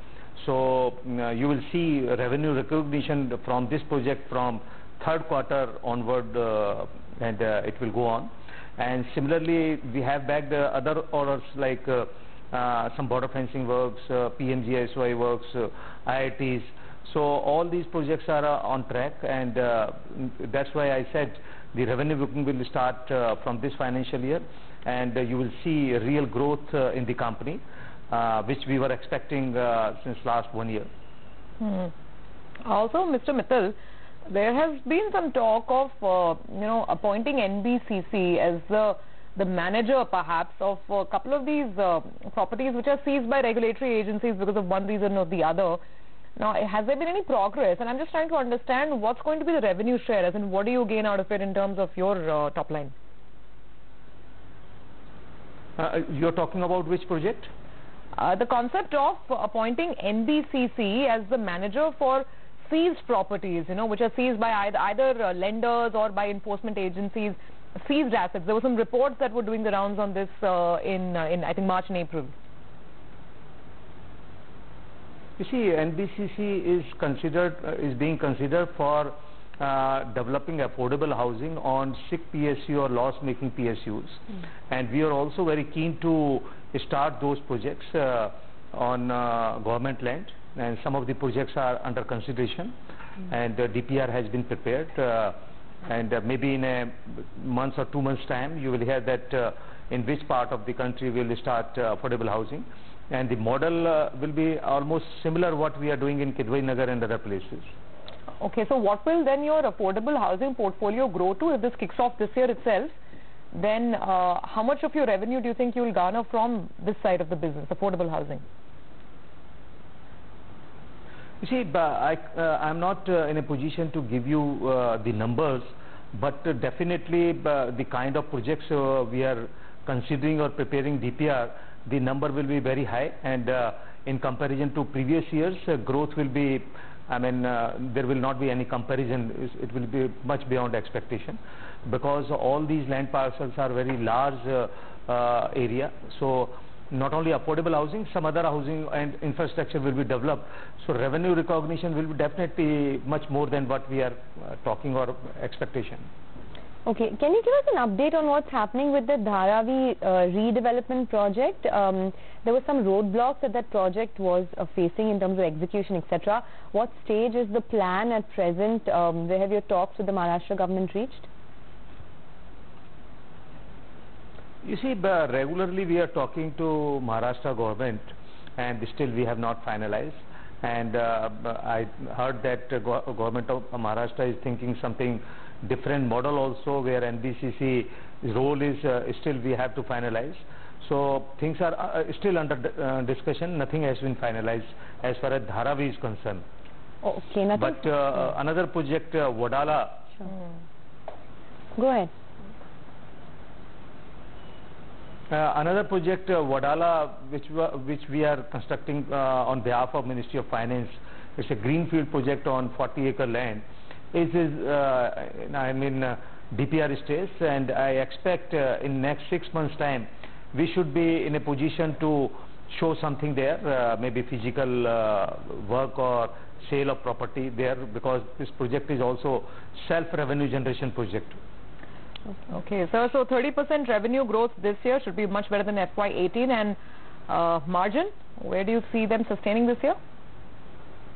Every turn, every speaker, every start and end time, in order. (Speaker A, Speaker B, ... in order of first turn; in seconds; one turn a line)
Speaker A: 0.4-30.9
Speaker B: 31.6-31.9
Speaker B: 32.6-33.8
Speaker B: 34.3-45.8
Speaker B: 46.4-52.9
Speaker A: 55.8-57.5
Speaker B: 58.1-72.3
Speaker A: 75.4-92.7
Speaker A: 93.3-107.7
Speaker B: 108.4-113.0
Speaker B: 113.5-118.4
Speaker A: 121.4-156.1
Speaker C: 156.9-171.3
Speaker A: 174.6-178.0
Speaker A: 178.6-196.4
Speaker C: 197.0-197.9
Speaker A: 197.6-200.1
Speaker C: 201.8-202.1
Speaker A: 205.3-231.4
Speaker B: 232.5-240.0